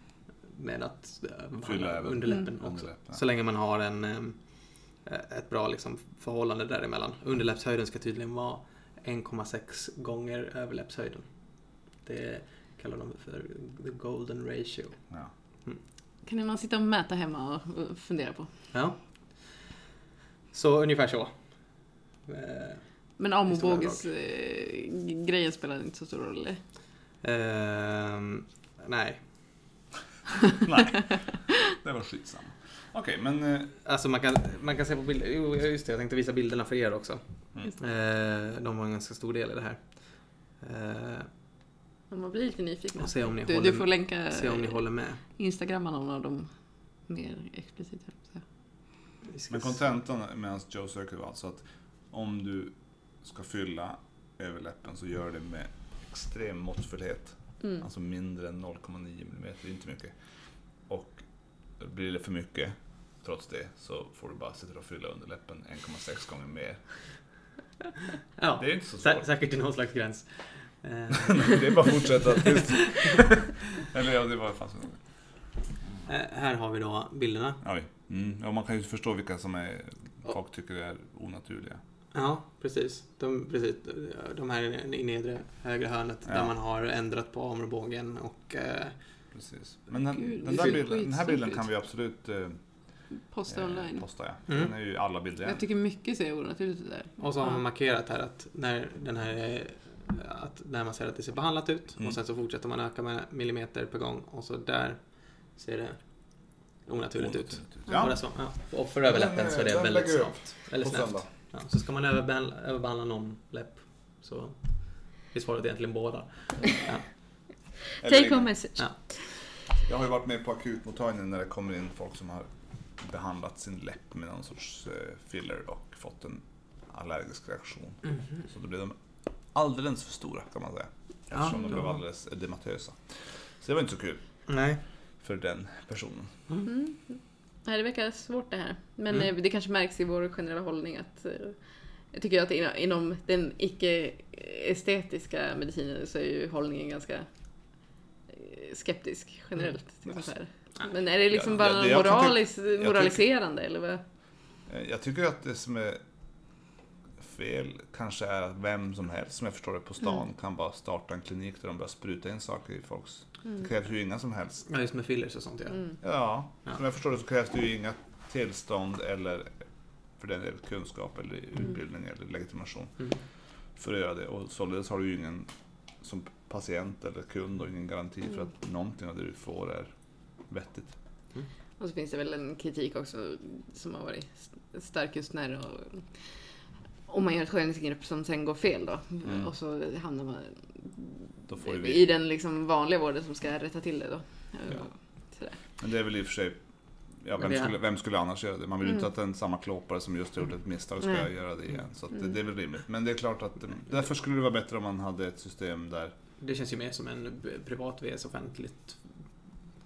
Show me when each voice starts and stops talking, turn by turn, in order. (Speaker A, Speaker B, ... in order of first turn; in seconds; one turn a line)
Speaker A: 0.5-15.8
Speaker B: 1.6-3.2
Speaker C: 16.2-18.5
Speaker A: 18.7-19.8
Speaker A: 20.5-24.1
Speaker C: 23.2-26.6
Speaker A: 27.2-29.7
Speaker B: 30.6-33.8
Speaker A: 33.9-41.3
Speaker C: 42.1-48.4
Speaker A: 43.0-45.2
Speaker A: 49.2-49.9
Speaker B: 49.5-60.2
Speaker B: 60.7-67.2
Speaker A: 68.4-73.5
Speaker B: 68.6-69.3
Speaker B: 71.4-75.2
Speaker A: 76.1-77.6
Speaker B: 77.6-81.8
Speaker A: 82.1-89.0
Speaker B: 86.3-86.5
Speaker B: 89.3-95.6
Speaker C: 90.1-91.6
Speaker C: 93.3-94.1
Speaker A: 94.5-94.7
Speaker C: 95.4-97.6
Speaker A: 97.2-117.6
Speaker B: 107.2-111.3
Speaker B: 118.0-118.5
Speaker C: 118.0-119.1
Speaker B: 119.8-134.5
Speaker A: 131.3-132.0
Speaker A: 134.5-134.8
Speaker B: 135.2-136.4
Speaker C: 136.7-154.0
Speaker B: 151.3-153.2
Speaker B: 154.7-156.0
Speaker B: 157.2-164.7
Speaker A: 164.7-166.0
Speaker B: 166.0-169.6
Speaker B: 170.2-173.1
Speaker B: 173.8-175.5
Speaker B: 176.0-181.0
Speaker C: 181.8-186.5
Speaker C: 187.1-195.6
Speaker B: 189.2-189.5
Speaker B: 191.5-192.1
Speaker B: 195.8-206.1
Speaker A: 197.4-197.7
Speaker A: 206.4-209.6